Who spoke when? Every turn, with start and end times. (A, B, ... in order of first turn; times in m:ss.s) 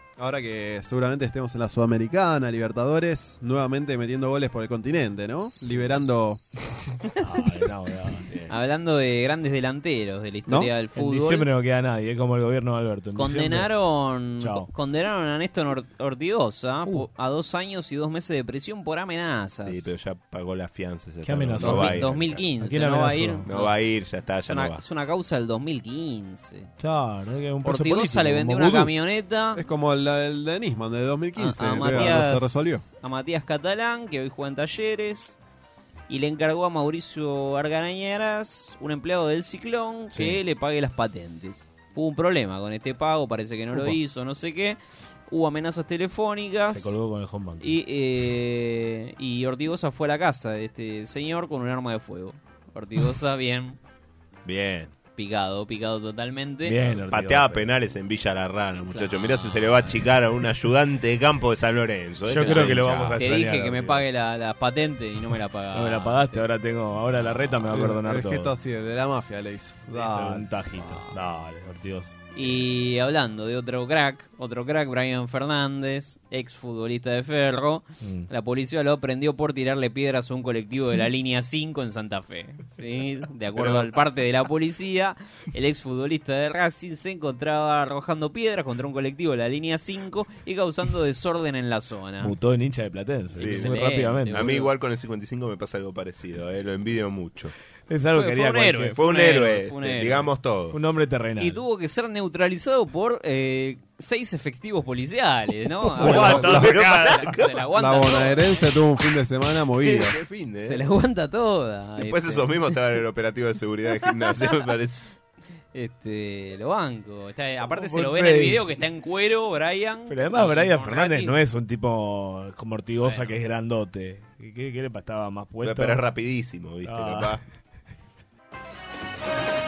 0:00.2-0:06.4 A
0:07.2-0:08.4 B
0:08.5-0:11.4 C
0:10.9-0:13.7 B
0:13.2-0:19.9 C
0:14.4-0:14.7 B
0:19.6-0:22.4 D
0:21.2-0:22.0 B
0:21.6-0:23.7 C
0:22.6-0:23.5 B
0:23.4-0:24.8 D
0:24.5-0:26.7 C
0:26.8-0:28.9 B
0:27.6-0:29.6 C
0:29.5-0:32.8 A
0:31.4-0:35.4 C
0:36.1-0:47.0 C
0:40.1-0:40.4 B
0:46.7-0:47.8 B
0:47.6-0:53.8 C
0:54.4-0:54.9 D
0:55.2-0:56.8 C
0:56.6-0:57.7 B
0:57.1-1:03.2 D
0:58.9-1:00.0 C
1:02.3-1:04.0 B
1:03.2-1:06.4 C
1:05.7-1:08.5 B
1:07.2-1:07.6 C
1:07.7-1:10.4 A
1:09.9-1:12.6 B
1:10.8-1:11.2 C
1:12.3-1:32.3 C
1:18.0-1:18.3 B
1:23.5-1:23.9 D
1:32.2-1:34.5 B
1:33.3-1:33.8 D
1:33.4-1:34.7 C
1:34.3-1:37.5 D
1:37.9-1:39.0 B
1:38.1-1:40.3 C
1:39.0-1:40.8 D
1:40.7-1:41.6 B
1:41.4-1:48.6 C
1:46.0-1:46.8 A
1:46.0-1:46.4 B
1:46.1-1:47.5 D
1:47.8-1:50.2 A
1:49.8-1:50.8 D
1:50.6-1:52.7 C
1:52.0-1:55.0 D
1:55.7-2:01.4 C
1:57.7-1:58.8 B
2:00.1-2:06.0 B
2:03.0-2:03.3 C
2:05.6-2:07.4 D
2:06.8-2:07.4 B